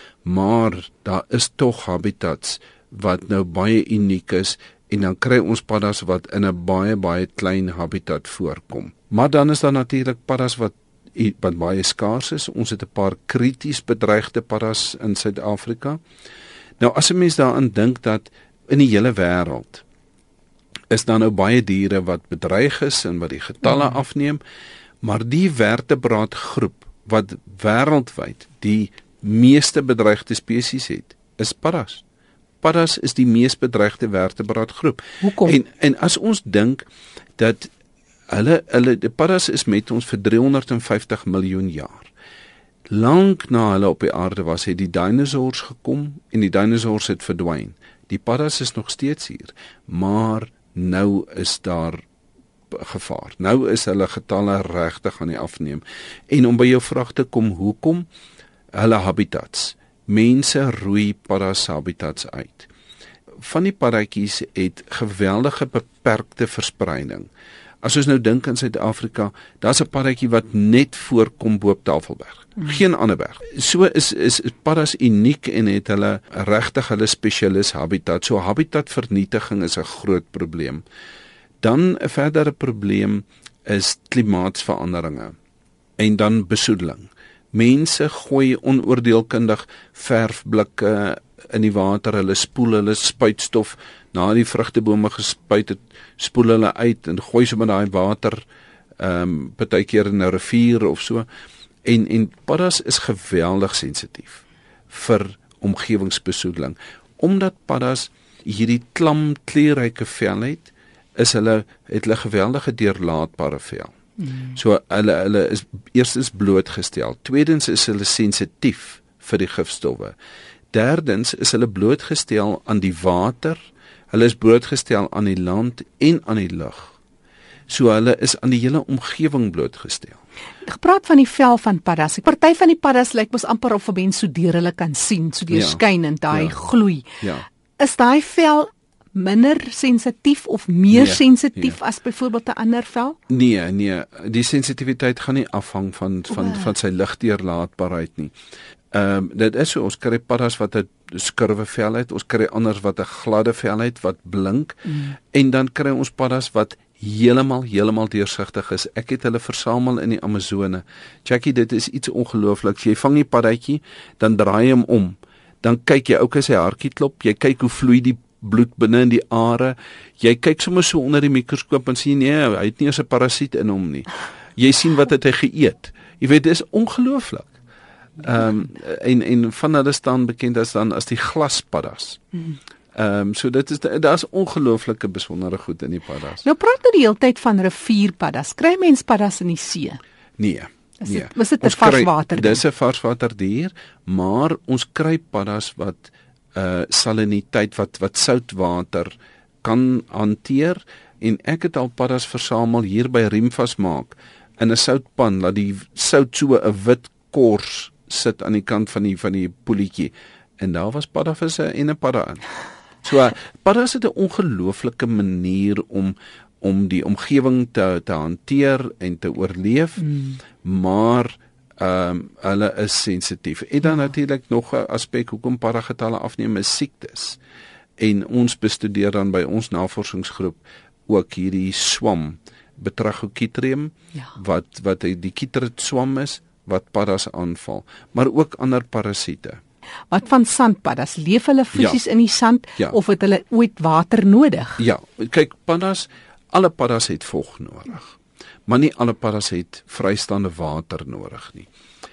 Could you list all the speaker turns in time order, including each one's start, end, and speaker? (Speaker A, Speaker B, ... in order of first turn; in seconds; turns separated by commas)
Speaker A: 0.2-16.0, Speaker A: 16.8-19.8, Speaker A: 20.9-24.4, Speaker A: 25.0-32.0, Speaker A: 32.6-36.9, Speaker B: 35.2-35.6, Speaker A: 37.4-37.7, Speaker A: 38.3-42.1, Speaker A: 42.9-52.1, Speaker A: 52.7-58.1, Speaker A: 58.7-62.7, Speaker A: 63.4-67.3, Speaker A: 67.8-80.8, Speaker A: 81.6-85.3, Speaker A: 86.0-98.5, Speaker A: 99.0-101.3, Speaker A: 101.8-113.9, Speaker A: 114.5-120.2, Speaker A: 120.7-127.0, Speaker A: 127.7-130.2, Speaker B: 130.6-137.1, Speaker A: 135.5-137.5, Speaker B: 137.8-143.2, Speaker A: 140.9-141.8, Speaker A: 143.3-148.3, Speaker B: 146.4-146.7, Speaker A: 148.9-177.6, Speaker A: 178.2-182.2, Speaker A: 182.9-186.4, Speaker B: 186.4-190.0, Speaker A: 190.4-212.4, Speaker B: 191.0-192.6, Speaker A: 213.0-220.1, Speaker B: 220.1-220.4, Speaker A: 220.6-227.4, Speaker A: 228.0-239.6, Speaker B: 240.1-244.8, Speaker A: 241.7-242.0, Speaker A: 244.8-251.7